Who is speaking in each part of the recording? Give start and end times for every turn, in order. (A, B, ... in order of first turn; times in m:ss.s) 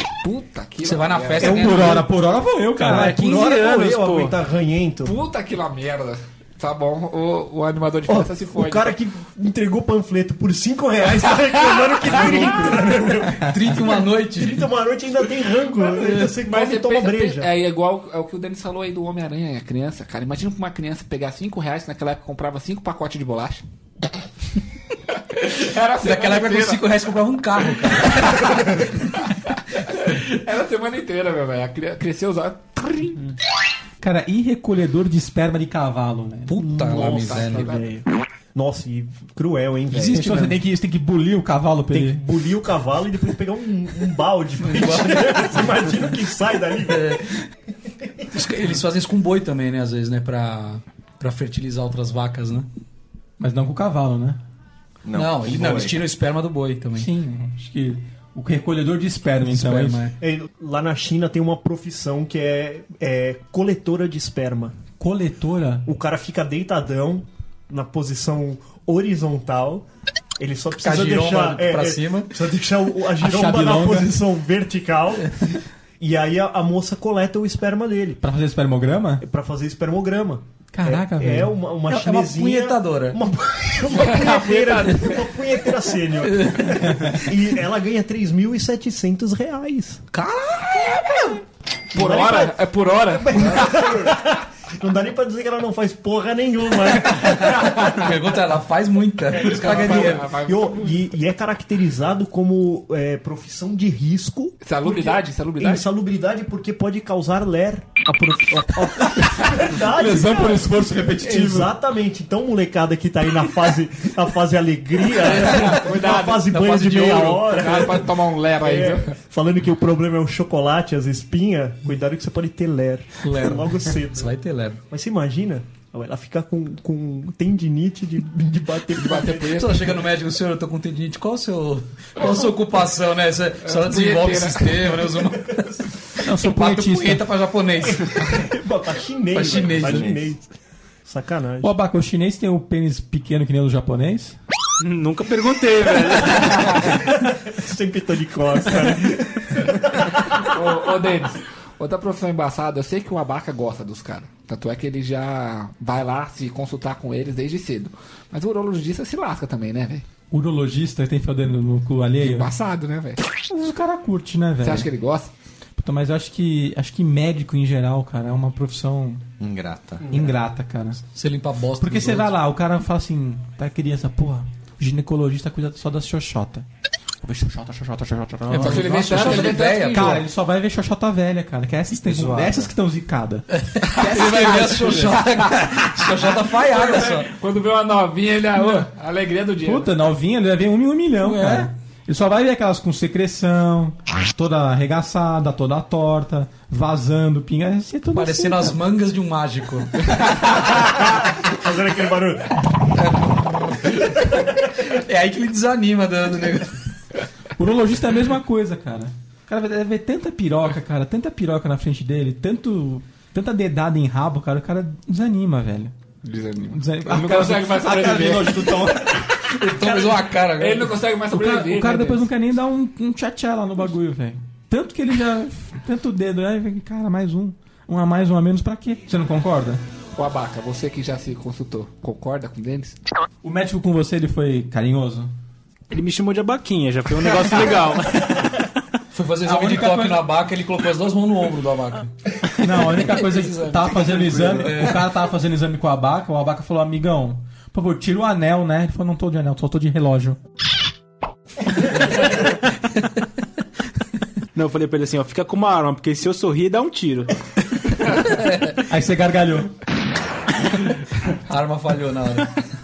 0:00.2-0:01.9 A
0:00.8-0:02.0 B
0:01.4-0:03.2 C
0:01.4-0:02.0 D
0:02.7-0:04.4 E
0:02.8-0:05.2 D
0:05.0-0:08.9 A
0:08.1-0:17.5 D
0:11.8-0:12.1 A
0:12.1-0:12.8 C
0:13.4-0:14.6 B
0:16.4-0:23.6 A
0:25.3-0:26.8 A
0:26.0-0:28.8 B
0:28.2-0:28.9 A
0:29.8-0:33.3 A
0:34.0-0:36.6 C
0:36.5-0:37.8 B
0:36.6-0:40.6 D
0:36.8-0:37.9 A
0:39.9-0:42.2 C
0:41.9-0:47.2 D
0:44.6-0:45.6 B
0:46.9-0:47.4 B
0:48.3-0:52.7 B
0:53.4-0:54.4 C
0:55.0-0:56.0 F
0:55.1-0:57.1 B
0:56.9-1:00.1 C
0:59.4-1:00.1 B
1:00.2-1:04.8 D
1:05.0-1:05.9 C
1:05.8-1:09.8 D
1:10.4-1:15.4 D
1:10.8-1:12.3 B
1:13.2-1:14.2 C
1:16.0-1:18.2 D
1:18.2-1:19.2 C
1:19.2-1:30.0 D
1:20.7-1:21.6 C
1:21.9-1:23.2 B
1:23.9-1:25.2 A
1:26.4-1:26.7 B
1:30.1-1:31.3 B
1:31.9-1:38.1 D
1:31.9-1:34.1 A
1:37.9-1:40.3 B
1:39.3-1:41.0 A
1:39.6-2:04.3 D
1:44.6-1:45.9 A
1:49.8-1:51.7 C
1:55.2-1:59.1 A
1:55.3-1:55.8 B
2:03.2-2:04.8 B
2:04.9-2:09.6 D
2:08.9-2:10.0 A
2:09.4-2:18.5 B
2:13.6-2:15.0 A
2:16.2-2:17.3 C
2:17.8-2:20.4 D
2:19.3-2:20.2 B
2:19.5-2:20.3 F
2:21.0-2:21.7 D
2:21.6-2:24.4 C
2:24.8-2:26.8 E
2:27.0-2:30.5 D
2:30.4-2:40.0 A
2:40.3-2:42.5 C
2:42.2-2:43.2 A
2:43.5-2:44.9 C
2:44.6-2:45.3 A
2:45.8-2:49.2 C
2:49.4-2:50.0 F
2:50.0-2:50.4 D
2:50.1-2:51.0 C
2:51.1-2:52.3 B
2:51.8-2:56.6 C
2:57.2-3:05.4 C
2:58.5-3:00.2 B
2:58.5-3:00.2 A
3:02.0-3:02.6 B
3:03.7-3:07.3 B
3:06.7-3:09.9 A
3:09.6-3:18.8 C
3:11.2-3:11.7 B
3:18.1-3:20.3 B
3:20.8-3:22.6 D
3:22.9-3:26.8 B
3:27.6-3:35.9 C
3:36.2-3:42.3 A
3:36.7-3:39.3 C
3:39.5-3:40.9 B
3:41.3-3:49.8 C
3:50.2-3:53.0 A
3:53.4-3:55.3 C
3:55.9-3:58.5 E
3:59.1-4:02.1 B
3:59.4-4:00.2 C
4:02.6-4:10.4 C
4:03.1-4:05.1 B
4:14.5-4:17.3 E
4:18.2-4:18.8 B
4:18.8-4:19.7 C
4:21.4-4:22.6 B